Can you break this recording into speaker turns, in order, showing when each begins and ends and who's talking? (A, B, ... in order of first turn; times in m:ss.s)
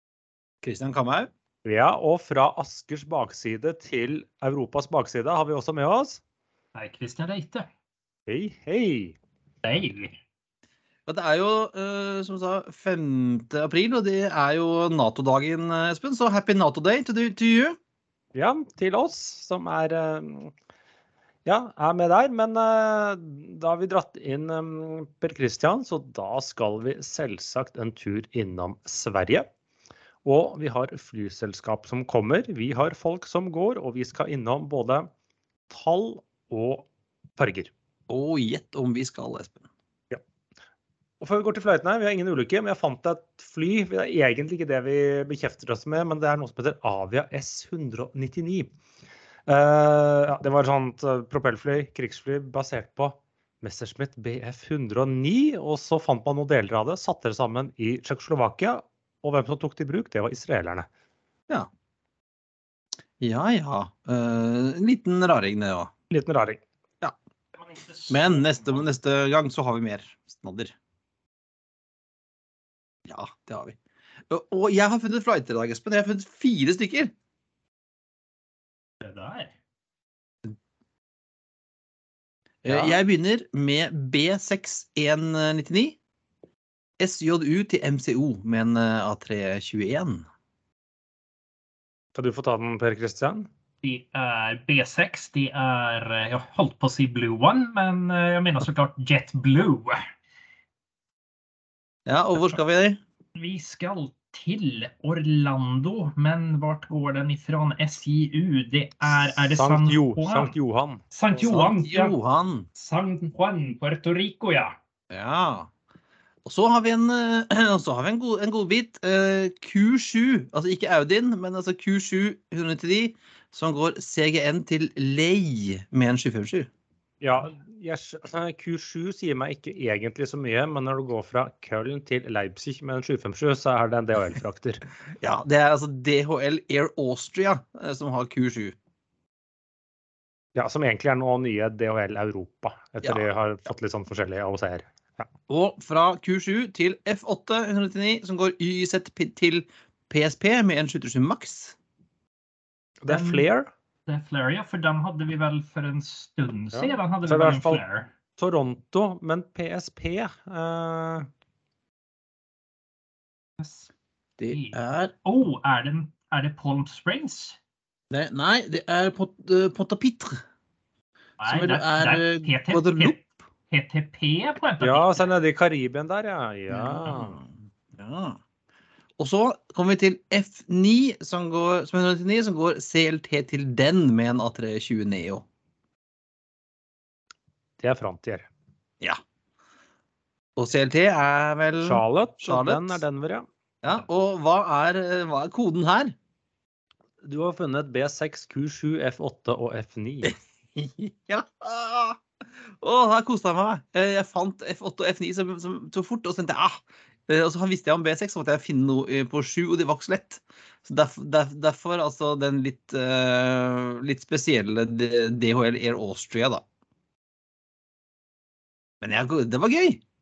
0:00.6-0:01.3 A
0:01.6-0:06.2 B
0:06.8-0:07.7 C
0:08.3-0:09.2 B
0:09.6-0:10.2 C
0:11.1-0:17.8 A
0:18.4-0:20.5 B
0:21.4-0:29.5 B
0:30.2-0:35.1 B
0:35.7-0:37.7 B
0:38.1-0:39.7 A
0:41.2-0:48.7 B
0:49.5-1:00.9 B
1:03.2-1:05.9 A
1:06.1-1:06.6 B
1:07.6-1:08.8 C
1:08.1-1:10.7 A
1:13.1-1:13.8 A
1:14.3-1:17.1 A
1:19.0-1:19.5 C
1:22.6-1:26.0 A
1:22.7-1:23.0 B
1:27.0-1:30.3 A
1:32.2-1:33.5 B
1:33.8-1:40.0 C
1:42.1-1:43.0 A
1:43.4-1:50.5 C
1:49.5-1:51.5 B
1:51.1-1:52.2 C
1:51.4-1:52.7 A
1:52.8-1:54.8 C
1:55.1-1:55.7 A
1:56.4-2:06.7 A
2:07.2-2:14.8 B
2:15.2-2:18.8 A
2:20.6-2:25.3 B
2:25.5-2:31.8 A
2:33.0-2:33.7 B
2:33.1-2:33.4 C
2:34.1-2:38.1 C
2:36.7-2:37.8 B
2:38.4-2:41.3 B
2:43.6-2:43.9 C
2:44.4-2:45.1 A
2:44.5-2:47.6 C
2:48.1-2:50.4 A
2:51.4-2:53.2 C
2:51.5-2:53.2 A
2:53.7-2:55.3 C
2:54.8-2:57.4 B
2:56.7-2:58.4 A
2:59.2-3:05.4 A
3:07.8-3:08.5 B
3:10.6-3:13.0 A
3:11.8-3:13.5 B
3:13.8-3:16.1 A
3:17.2-3:20.3 B
3:20.2-3:22.2 A
3:22.8-3:36.6 A
3:39.0-3:40.0 A